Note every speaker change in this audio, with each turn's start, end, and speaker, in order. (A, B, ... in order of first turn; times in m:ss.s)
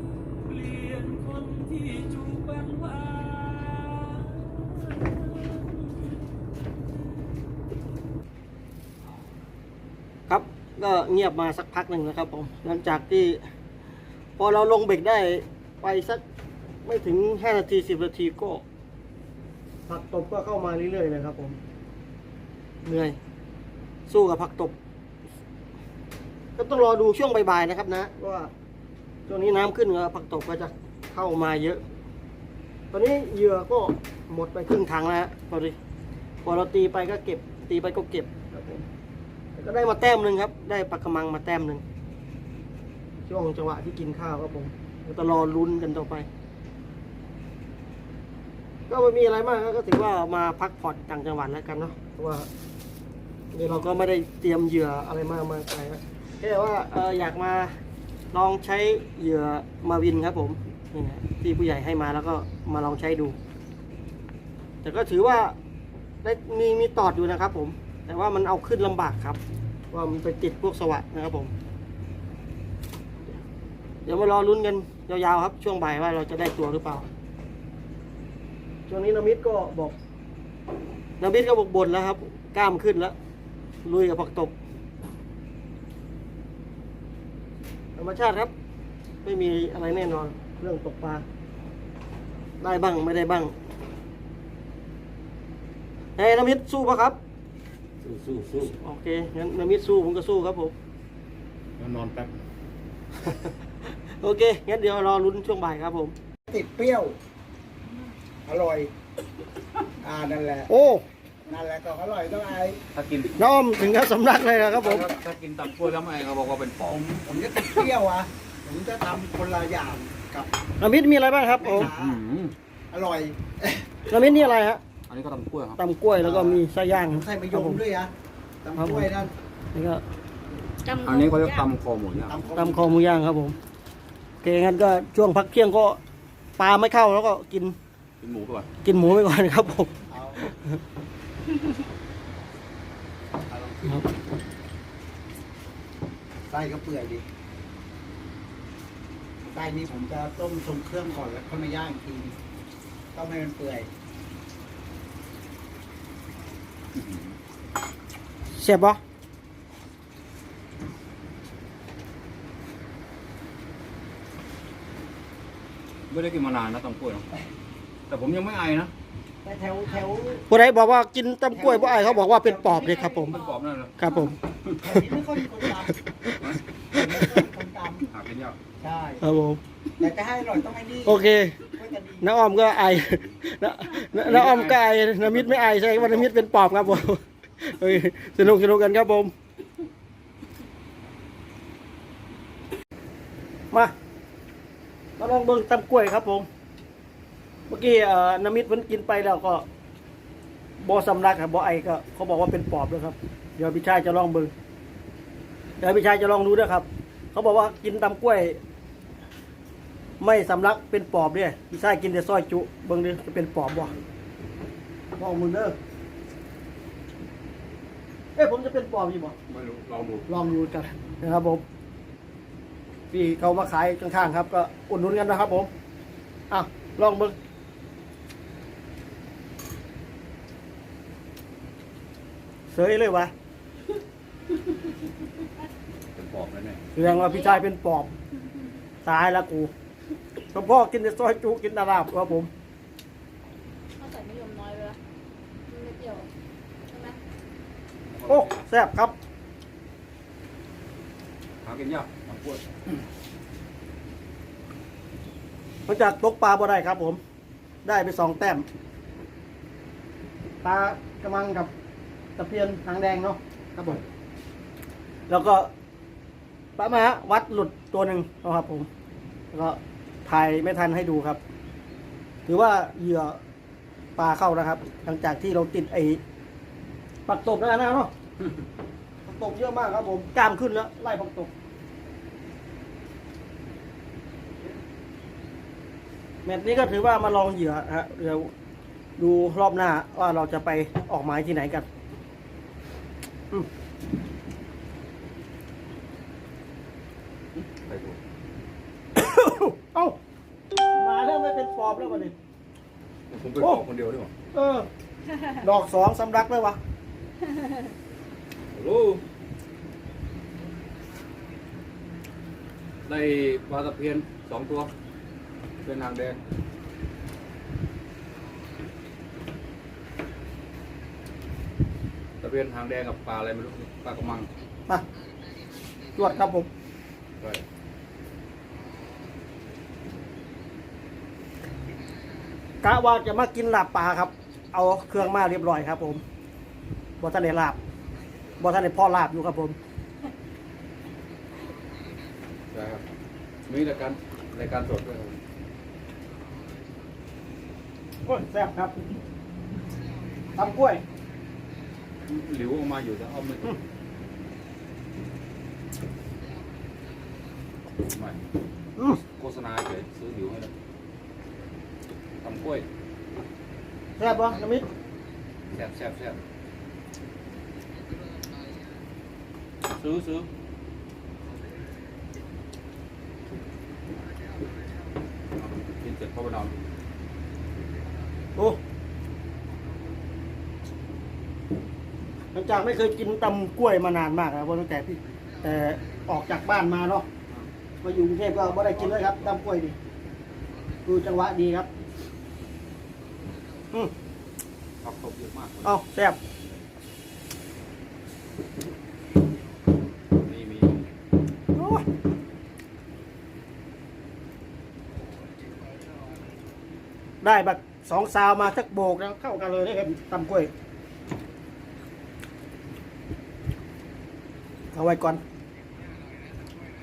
0:00.5-0:05.1 A
0:10.3-0:13.4 B
0:14.4-0:16.2 B
0:16.8-0:18.6 B
0:19.9-0:21.6 B
0:22.8-0:23.2 B
0:24.1-0:24.8 B
0:26.6-0:28.5 B
0:29.3-0:31.8 B
0:32.9-0:35.8 B
0:36.4-0:38.8 B
0:39.6-0:41.8 B
0:43.3-0:46.3 B
0:48.9-0:52.5 B
0:53.5-0:57.8 B
0:58.3-1:03.4 B
1:04.8-1:05.6 B
1:06.2-1:09.4 B
1:09.9-1:11.5 B
1:14.0-1:17.0 B
1:18.9-1:19.9 B
1:21.2-1:23.2 B
1:23.8-1:24.5 B
1:28.0-1:28.5 B
1:29.2-1:31.2 B
1:32.6-1:33.5 B
1:36.2-1:37.2 B
1:38.0-1:38.7 A
1:38.7-1:40.7 B
1:41.8-1:42.3 A
1:43.2-1:46.1 B
1:46.5-1:47.2 C
1:48.4-1:48.9 C
1:50.0-1:50.7 C
1:50.7-1:51.0 B
1:51.5-1:52.8 C
1:52.9-1:53.3 A
1:53.4-1:55.1 B
1:54.7-1:57.2 A
1:57.2-2:00.5 C
2:00.8-2:01.9 B
2:01.6-2:02.2 C
2:01.7-2:02.5 A
2:02.9-2:04.0 C
2:04.1-2:04.8 B
2:05.1-2:05.8 A
2:05.8-2:07.8 B
2:06.2-2:08.1 C
2:08.6-2:09.3 C
2:08.8-2:09.1 B
2:09.7-2:10.0 B
2:10.8-2:11.7 D
2:11.0-2:12.4 A
2:12.3-2:13.0 C
2:12.5-2:13.6 B
2:14.4-2:16.0 B
2:16.6-2:17.7 B
2:18.2-2:18.7 A
2:18.8-2:20.6 B
2:20.1-2:20.4 C
2:23.5-2:24.0 C
2:26.5-2:27.2 C
2:29.5-2:32.3 C
2:33.1-2:33.9 C
2:36.9-2:37.4 A
2:38.5-2:39.0 B
2:46.1-2:47.2 A
2:48.1-2:48.9 A
2:49.4-2:50.5 C
2:50.5-2:53.4 B
2:51.5-2:53.3 C
2:53.1-2:54.2 A
2:54.0-2:54.4 B
2:54.8-2:56.0 C
2:56.9-2:58.1 C
2:58.1-2:58.6 A
2:58.8-2:59.2 C
2:59.2-2:59.6 B
3:00.0-3:02.3 C
3:01.0-3:01.6 B
3:02.2-3:09.3 B
3:04.1-3:05.6 A
3:15.2-3:16.4 B
3:17.7-3:19.6 B
3:20.8-3:24.5 B
3:25.8-3:28.6 B
3:30.2-3:34.0 B
3:35.2-3:35.8 B
3:38.4-3:39.3 B
3:39.5-3:40.2 A
3:40.3-3:41.6 B
3:43.1-3:45.7 B
3:46.5-3:47.3 B
3:52.7-3:53.3 B
3:56.1-3:56.8 A
3:56.9-3:58.1 B
3:57.0-3:57.6 D
3:59.0-3:59.7 B
4:00.5-4:02.5 B
4:04.0-4:05.0 D
4:05.7-4:06.3 D
4:06.9-4:07.2 D
4:08.1-4:08.6 A
4:08.3-4:09.2 B
4:11.6-4:13.0 A
4:15.8-4:17.2 B
4:17.8-4:18.6 B
4:20.6-4:21.7 B
4:22.4-4:24.0 B
4:25.3-4:25.7 B
4:26.8-4:28.9 B
4:29.5-4:31.4 B
4:32.5-4:33.4 B
4:34.2-4:36.2 B
4:37.3-4:38.1 B
4:39.2-4:41.5 B
4:46.4-4:48.5 B
4:49.2-4:51.8 B
4:57.5-4:58.2 A
4:59.2-5:00.2 B
5:00.9-5:02.3 B
5:03.3-5:04.3 A
5:04.5-5:04.9 B
5:05.5-5:06.8 B
5:08.7-5:09.2 A
5:13.0-5:14.9 A
5:15.8-5:16.4 A
5:22.4-5:24.5 A
5:26.1-5:26.7 B
5:32.8-5:36.2 B
5:37.2-5:37.8 B
5:38.6-5:39.8 B
5:42.7-5:43.0 A
5:43.7-5:45.4 A
5:48.2-5:49.0 B
5:50.5-5:51.0 B
5:52.2-5:53.8 A
5:58.0-5:58.4 A
5:59.2-6:00.7 A
6:02.4-6:02.9 A
6:04.2-6:04.8 B
6:05.7-6:06.4 A
6:09.8-6:10.5 A
6:15.5-6:16.7 A
6:22.5-6:27.3 B
6:28.0-6:30.0 B
6:28.6-6:29.6 A
6:31.0-6:31.9 B
6:35.0-6:36.8 A
6:35.8-6:36.4 B
6:40.3-6:41.1 A
6:41.7-6:42.0 B
6:47.4-6:50.7 B
6:54.9-6:55.4 B